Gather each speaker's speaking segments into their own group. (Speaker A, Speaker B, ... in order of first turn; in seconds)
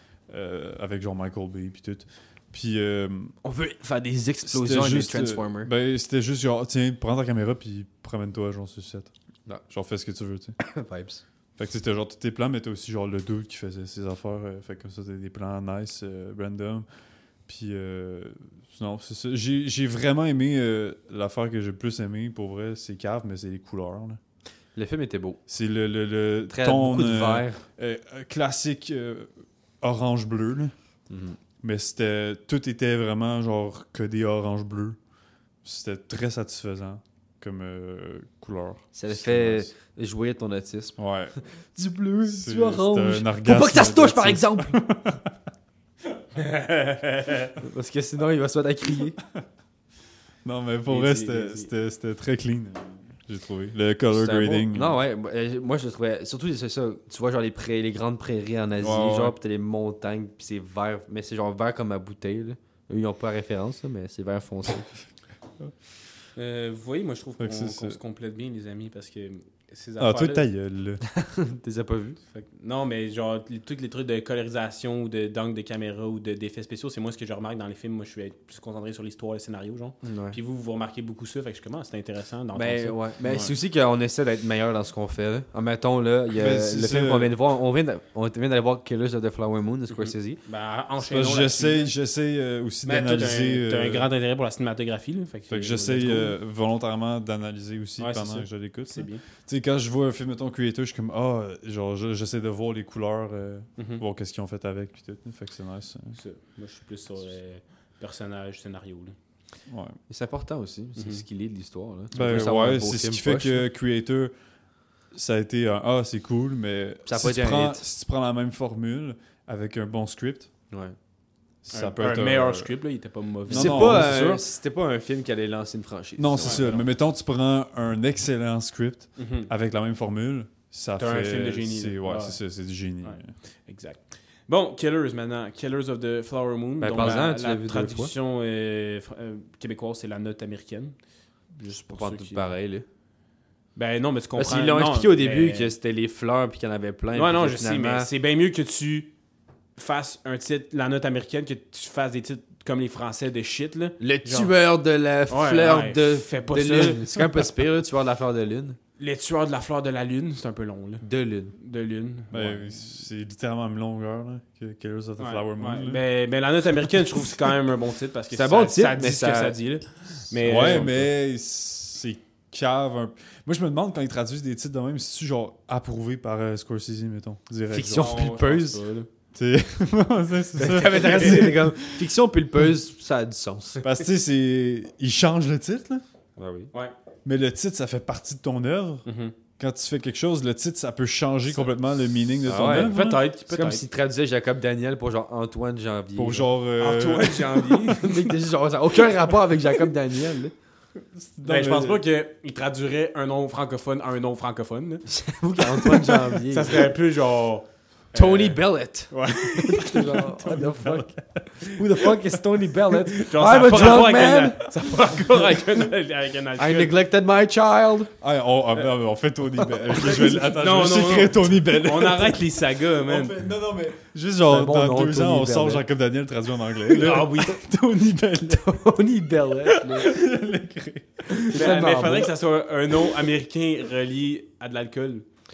Speaker A: 0.3-3.4, 4.5-9.1, 9.7-10.6, 11.6-16.9, 17.5-24.2, 25.5-30.7, 31.6-35.0, 35.6-39.7, 41.0-41.4, 42.3-45.4, 50.4-55.0, 58.8-59.4, 67.4-68.0, 70.0-71.0, 86.4-87.3, 91.0-94.1, 95.5-106.2, 109.7-110.0, 112.1-114.3, 115.1-120.5, 121.6-122.7, 123.5-124.5, 126.2-133.3, 162.3-166.0, 170.4-178.3, 179.3-182.0, 183.8-186.0, 187.2-189.1, 189.6-193.2, 196.2-198.0, 201.0-202.0, 210.3-211.8, 218.2-228.8, 229.7-231.7
Speaker B: 3.4-5.7, 10.6-11.2, 24.8-25.4, 26.5-27.6, 31.1-31.4, 38.9-41.0, 41.8-44.8, 47.6-49.2, 54.1-64.9, 71.0-72.2, 80.0-80.4, 82.5-90.4, 110.1-113.7, 117.1-117.8, 123.5-126.7, 136.8-138.1, 141.6-142.8, 144.4-148.1, 154.0-158.8, 161.0-161.5, 168.3-169.6, 177.7-178.8, 180.6-183.9, 186.4-186.7, 192.4-192.9, 193.5-196.5, 197.7-200.5, 205.1-206.9, 208.1-214.7, 216.6-218.1, 224.5-225.8, 228.4-230.1, 231.5-232.3
Speaker C: 46.4-47.5, 50.9-51.7, 66.4-70.5, 72.3-83.5, 89.9-91.9, 92.8-96.3, 98.0-99.2, 103.8-104.0, 106.2-109.2, 111.0-111.2, 121.7-124.1, 126.4-126.9, 129.2-129.5, 131.0-132.4, 133.0-140.9, 141.7-142.5, 143.8-145.7, 147.1-149.1, 149.8-154.5, 155.3-157.1, 159.0-161.0, 161.6-162.7, 165.2-171.1, 177.9-179.1, 180.8-181.5, 189.1-189.3, 192.6-193.8, 196.8-198.3, 201.4-205.1, 205.7-210.3, 213.2-216.9, 219.8-223.4, 226.9-227.6, 231.3-235.2